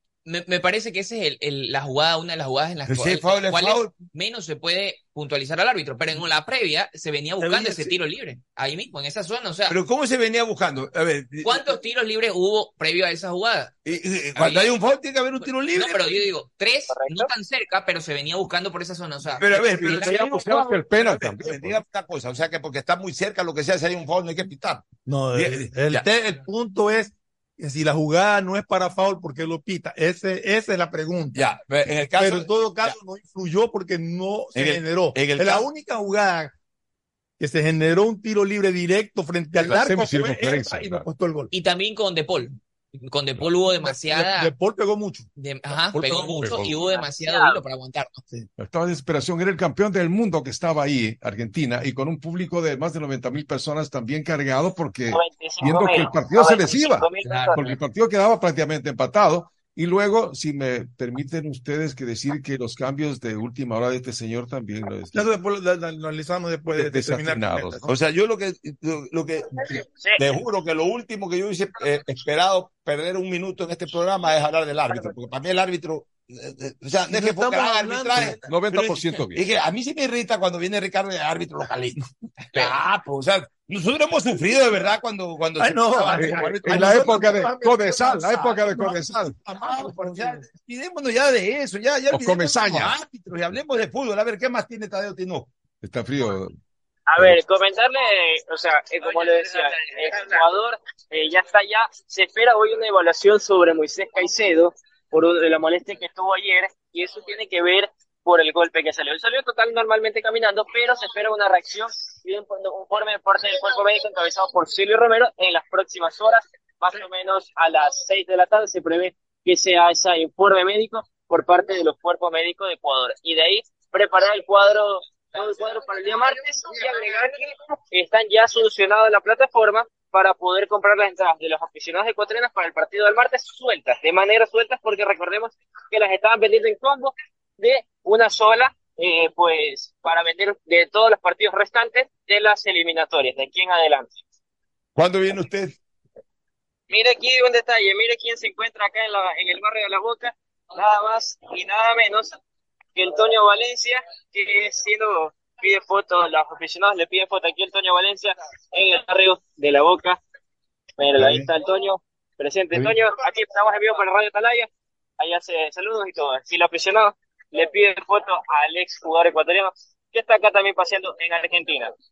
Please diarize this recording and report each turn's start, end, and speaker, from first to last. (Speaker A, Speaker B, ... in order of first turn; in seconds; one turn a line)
Speaker A: 0.3-9.8
Speaker B: 2.9-3.9
Speaker B: 7.4-7.9
Speaker B: 9.7-11.8
Speaker A: 11.4-13.7
Speaker B: 13.8-16.3
Speaker A: 14.3-14.7
Speaker A: 15.7-20.1
Speaker C: 16.9-17.3
Speaker B: 19.4-26.1
Speaker D: 19.5-21.8
Speaker E: 25.1-31.4
Speaker B: 31.3-32.9
Speaker E: 32.2-36.5
Speaker B: 34.5-35.7
Speaker E: 37.4-41.5
Speaker B: 39.6-40.5
Speaker D: 39.6-41.1
Speaker A: 41.5-44.5
Speaker E: 43.6-45.3
Speaker A: 45.4-48.2
Speaker E: 45.9-46.6
Speaker D: 46.1-46.7
Speaker C: 46.9-47.6
Speaker D: 48.6-65.3
Speaker C: 55.1-57.8
Speaker A: 57.2-57.6
Speaker E: 65.1-67.9
Speaker D: 66.8-67.8
Speaker B: 67.8-82.0
Speaker C: 70.0-70.3
Speaker E: 77.1-78.5
Speaker D: 78.5-79.4
Speaker B: 82.5-87.5
Speaker E: 85.6-90.5
Speaker D: 86.0-89.3
Speaker B: 89.5-95.5
Speaker D: 92.1-93.0
Speaker D: 95.8-96.6
Speaker C: 97.1-144.2
Speaker B: 145.0-145.8
Speaker C: 146.9-152.4
Speaker C: 153.0-160.2
Speaker C: 161.0-171.9